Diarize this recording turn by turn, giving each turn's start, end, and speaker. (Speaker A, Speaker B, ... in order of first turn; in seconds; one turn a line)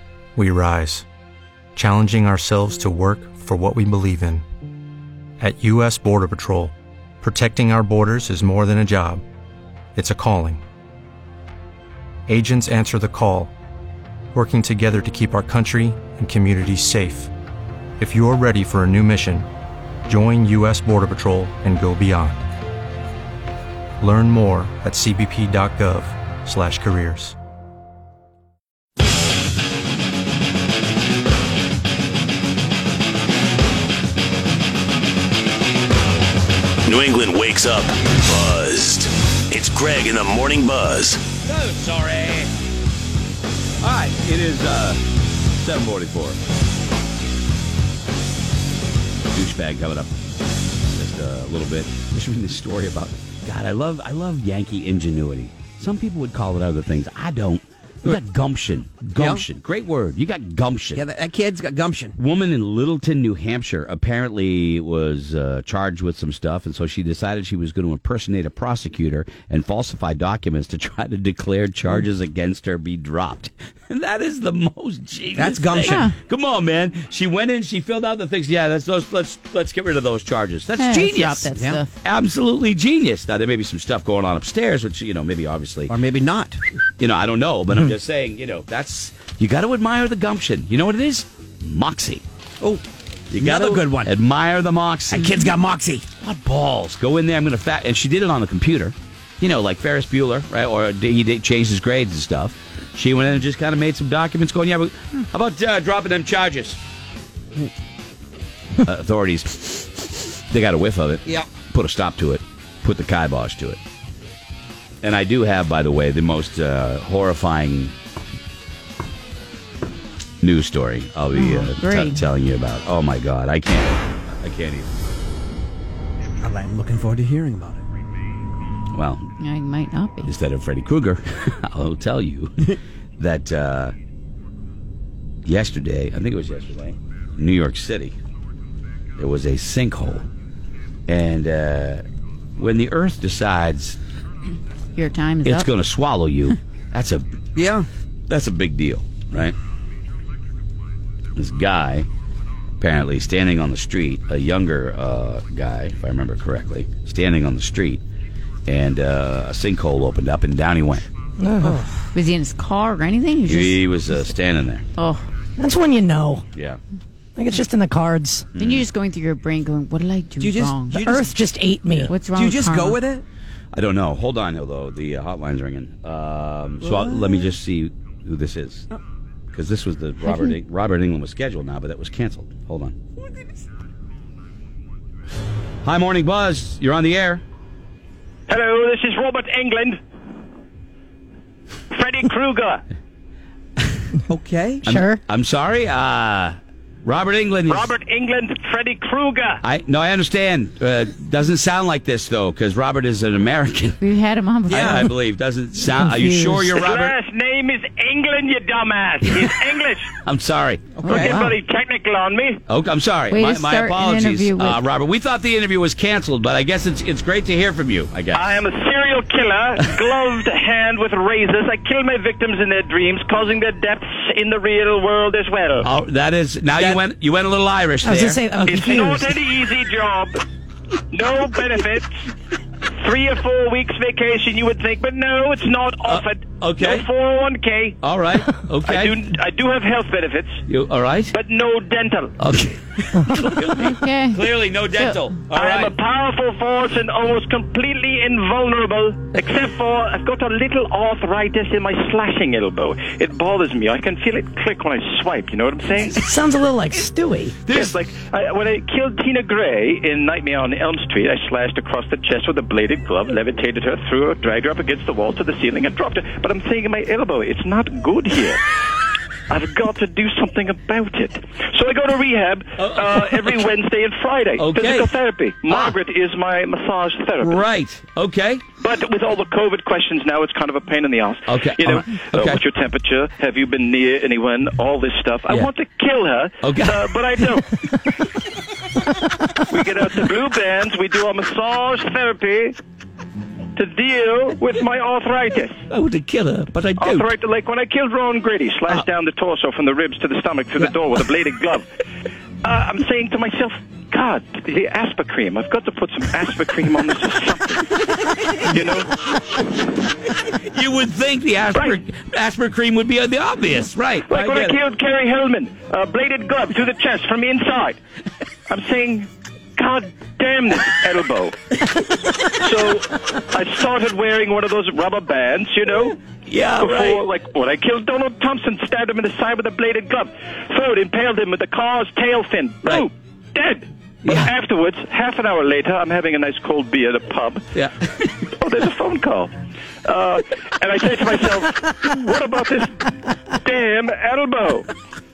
Speaker A: 0.3-1.1
Speaker A: 1.7-4.4
Speaker A: 5.4-9.2
Speaker A: 9.9-10.6
Speaker A: 12.3-13.5
Speaker A: 14.3-17.3
Speaker A: 18.0-19.5
Speaker A: 20.1-22.4
Speaker A: 24.0-27.4
Speaker B: 36.9-41.2
Speaker C: 41.5-42.5
Speaker C: 43.8-45.0
Speaker C: 45.6-46.4
Speaker C: 49.3-50.1
Speaker C: 50.9-61.0
Speaker D: 59.1-59.5
Speaker D: 60.9-62.1
Speaker C: 62.2-85.9
Speaker D: 75.3-76.1
Speaker E: 75.8-76.1
Speaker E: 80.8-81.9
Speaker D: 81.5-81.8
Speaker D: 85.9-86.6
Speaker C: 87.0-92.2
Speaker C: 93.3-95.4
Speaker D: 93.3-94.1
Speaker D: 95.1-96.1
Speaker C: 96.2-106.8
Speaker C: 108.8-113.8
Speaker C: 115.0-117.9
Speaker C: 120.4-124.9
Speaker E: 121.3-122.2
Speaker D: 126.4-127.8
Speaker C: 128.9-129.2
Speaker E: 129.4-130.3
Speaker C: 130.2-133.9
Speaker C: 135.4-138.2
Speaker C: 139.2-140.2
Speaker C: 141.1-142.0
Speaker C: 142.6-144.0
Speaker E: 144.9-145.7
Speaker C: 145.4-147.2
Speaker D: 147.6-147.9
Speaker C: 148.3-149.5
Speaker C: 151.3-152.1
Speaker C: 152.8-158.0
Speaker C: 158.7-161.1
Speaker F: 161.4-161.8
Speaker E: 162.1-163.8
Speaker C: 163.4-164.8
Speaker E: 165.0-165.3
Speaker F: 165.6-166.4
Speaker C: 166.5-166.8
Speaker F: 167.3-168.5
Speaker C: 168.5-168.8
Speaker E: 168.6-171.0
Speaker D: 170.4-171.4
Speaker F: 171.0-172.1
Speaker E: 172.1-173.0
Speaker D: 172.3-173.2
Speaker C: 173.7-178.9
Speaker D: 176.8-177.4
Speaker C: 179.5-182.9
Speaker E: 180.3-180.5
Speaker C: 185.8-187.4
Speaker G: 188.5-190.0
Speaker G: 191.9-192.8
Speaker D: 194.3-194.9
Speaker C: 194.8-197.9
Speaker F: 194.9-195.2
Speaker G: 197.7-199.6
Speaker C: 199.6-204.0
Speaker E: 204.0-205.0
Speaker D: 204.7-205.1
Speaker C: 204.8-207.1
Speaker E: 205.9-206.7
Speaker G: 206.7-210.1
Speaker C: 210.2-211.5
Speaker D: 210.9-211.5
Speaker G: 211.1-212.6
Speaker C: 212.7-218.6
Speaker E: 213.3-214.8
Speaker G: 218.3-225.9
Speaker C: 225.8-228.5
Speaker F: 228.0-229.4
Speaker G: 228.6-230.4
Speaker G: 231.1-232.2
Speaker G: 233.0-238.0
Speaker C: 236.0-237.1
Speaker C: 238.0-239.2
Speaker G: 238.8-240.6
Speaker C: 240.7-241.3
Speaker G: 241.3-242.3
Speaker C: 242.4-245.9
Speaker E: 243.9-245.4
Speaker G: 245.5-256.2
Speaker F: 256.1-257.6
Speaker C: 257.7-258.0
Speaker G: 257.7-268.6
Speaker G: 269.5-277.7
Speaker C: 272.8-273.6
Speaker C: 274.6-275.1
Speaker C: 275.7-276.0
Speaker C: 277.4-278.6
Speaker G: 278.8-287.8
Speaker C: 281.5-282.6
Speaker C: 286.6-287.1
Speaker G: 289.7-292.8
Speaker G: 293.8-295.8
Speaker C: 295.9-297.3
Speaker G: 297.0-301.8
Speaker G: 302.6-308.0
Speaker G: 308.6-309.1
Speaker C: 310.3-314.8
Speaker G: 311.7-312.0
Speaker G: 314.3-318.0
Speaker G: 318.7-321.6
Speaker G: 322.5-326.1
Speaker C: 326.3-327.2
Speaker G: 326.8-337.7
Speaker C: 334.2-334.5
Speaker C: 337.7-338.3
Speaker G: 338.6-339.5
Speaker G: 340.0-344.9